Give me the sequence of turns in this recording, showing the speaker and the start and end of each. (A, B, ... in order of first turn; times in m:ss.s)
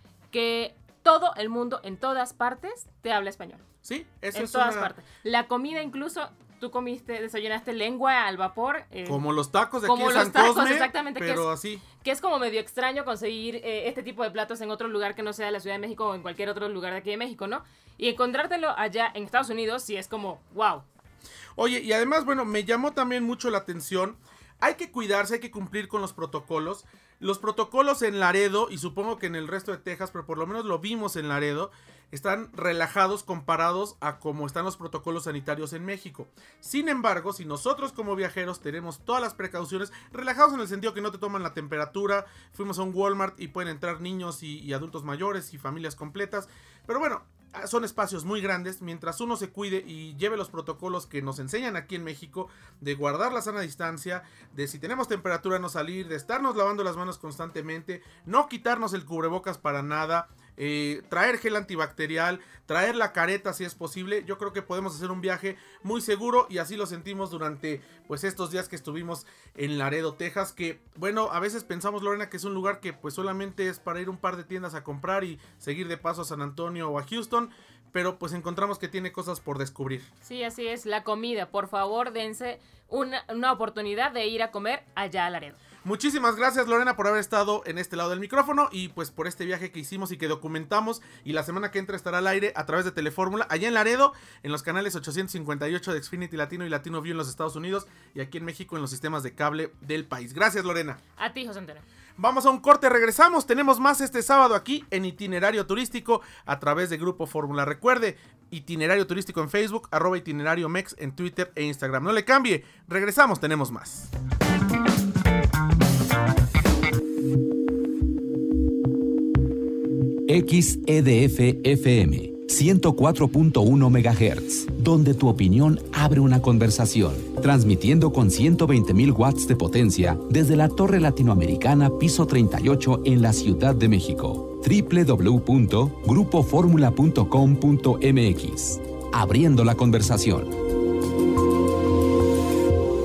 0:00.3-0:03.6 A
0:03.8-0:04.9 B
0:04.3-0:09.2 A
0:09.1-0:11.8 B
0:09.8-0:11.5 A
0:12.0-0:20.9 A
0:21.6-1:20.1 B
1:20.2-1:25.6 A
1:25.8-1:41.0 B
1:41.2-1:41.8 A
1:42.2-1:54.1 B
2:00.3-2:20.5 C